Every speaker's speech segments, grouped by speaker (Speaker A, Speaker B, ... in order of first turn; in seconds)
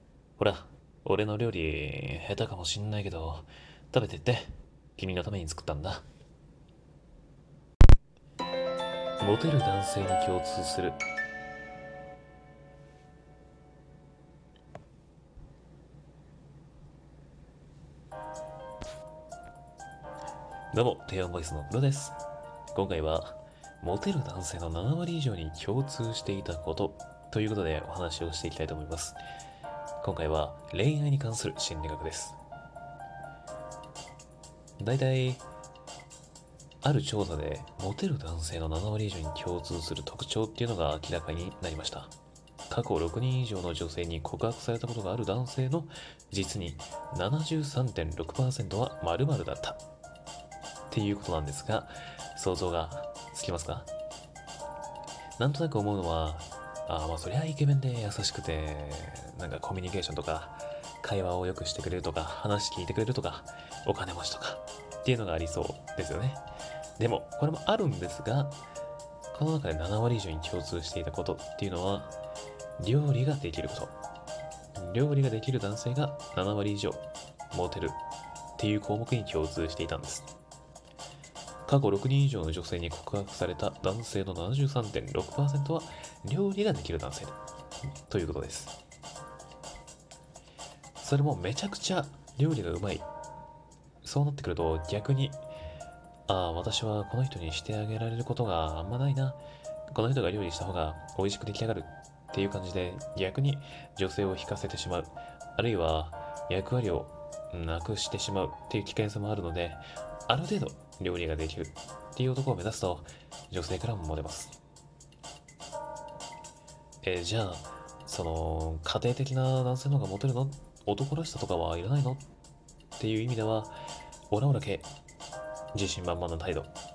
Speaker A: 0.4-6.0, 9.2-11.0, 20.7-22.2, 22.7-29.2, 30.0-32.4, 34.8-35.4, 36.8-42.1, 42.7-49.8, 50.9-53.9, 55.4-66.4, 67.0-68.6, 69.3-72.1, 72.8-74.0, 74.8-78.0, 78.6-80.3, 81.7-87.4, 88.1-88.8, 91.0-93.1, 94.0-95.4, 96.3-114.6, 117.0-122.2, 123.0-123.7, 124.3-124.9, 125.7-126.7